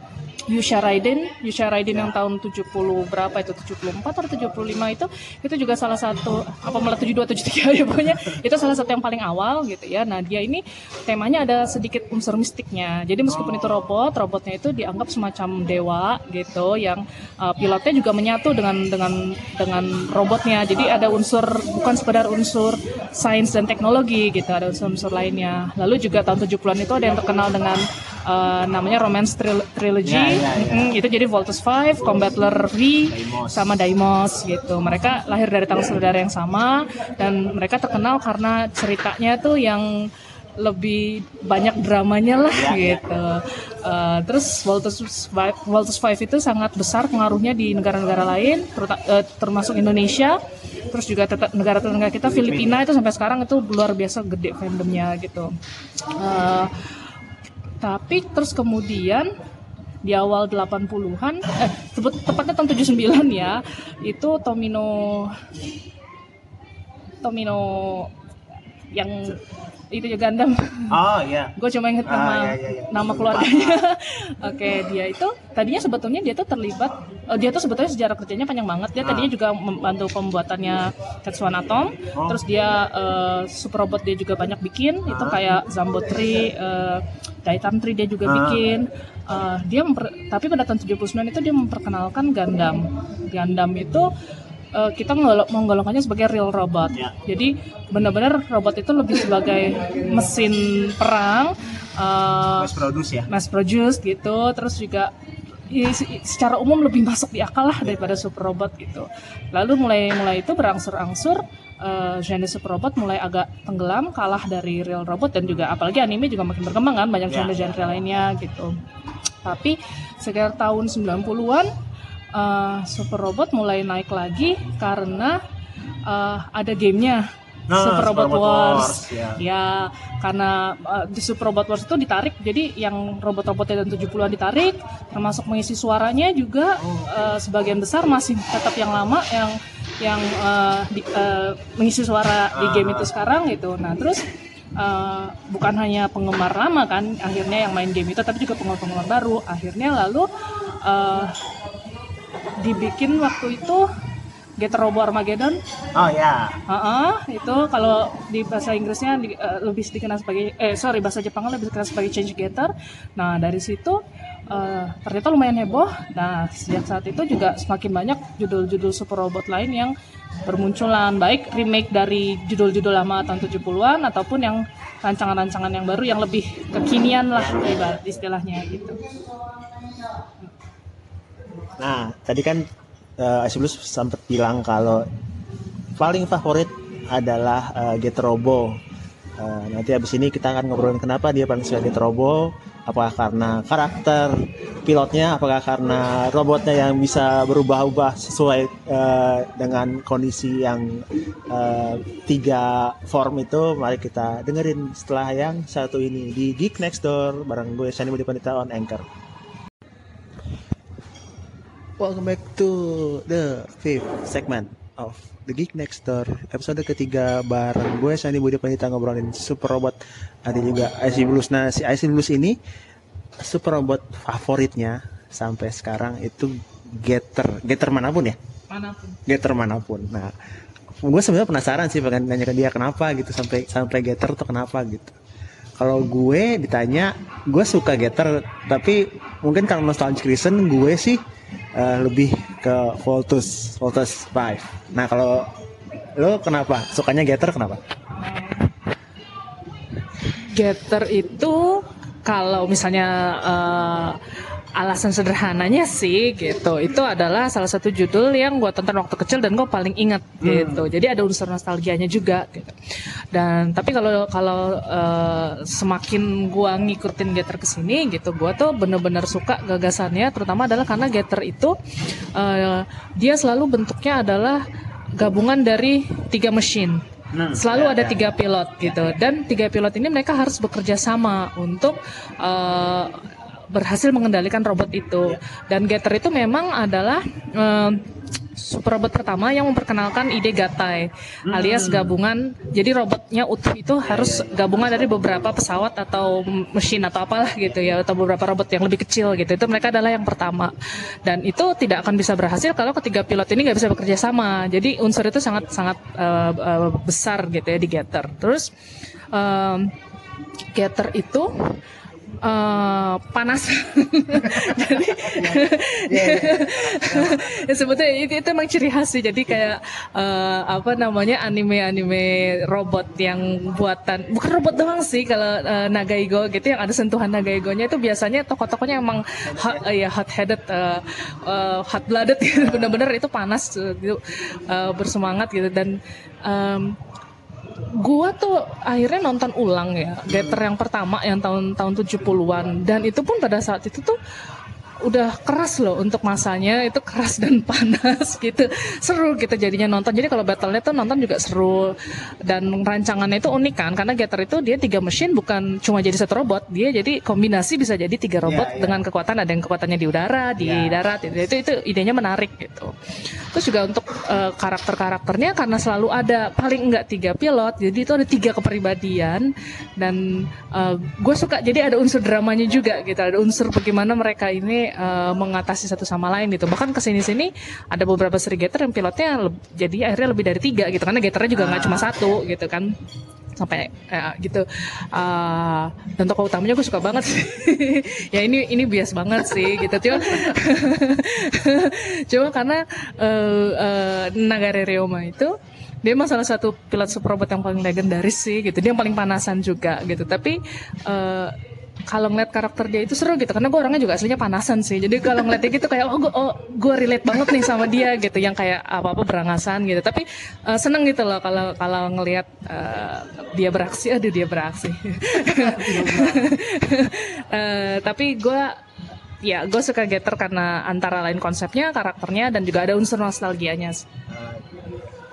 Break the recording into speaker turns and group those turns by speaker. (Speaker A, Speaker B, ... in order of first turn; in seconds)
Speaker A: 0.5-50.4, 50.9-55.5, 56.1-56.7, 57.8-59.3, 60.0-65.4, 67.2-68.1, 68.9-69.4, 69.9-71.0, 71.6-94.1, 94.7-102.7, 103.3-105.1, 105.7-118.8, 119.4-121.7, 122.3-125.4, 126.1-144.2, 144.8-150.3, 150.8-151.4, 152.6-153.9, 154.6-155.6, 156.7-169.9, 170.4-179.0, 228.7-229.2, 248.2-248.6, 250.5-254.2, 254.8-262.8, 263.3-271.8, 272.4-274.6, 275.2-300.7, 301.2-308.7, 309.3-309.9, 310.8-311.8, 312.4-337.0, 337.9-344.2, 345.0-362.9, 363.5-382.9, 383.6-401.6, 402.1-418.8, 419.4-424.1
Speaker B: 13.3-13.9, 30.0-31.0, 33.1-33.6, 42.5-43.0, 52.2-52.8, 70.9-73.8, 79.0-79.3, 82.1-82.4, 85.1-85.4, 88.2-88.7, 102.5-103.3, 117.3-117.7, 127.7-129.4, 136.8-137.1, 142.5-143.1, 155.9-156.6, 177.3-178.0, 181.8-182.7, 183.2-185.1, 186.0-188.8, 189.4-209.1, 212.0-222.6, 223.4-228.4, 229.3-230.3, 231.0-235.2, 235.8-241.2, 241.8-245.5, 246.2-247.8, 260.4-260.9, 277.3-278.3, 291.5-292.2, 294.0-295.5, 314.4-317.8, 329.5-329.8, 332.6-333.0, 340.3-340.6, 358.4-359.0, 360.6-361.0, 381.5-382.1, 415.4-416.6, 424.3-424.8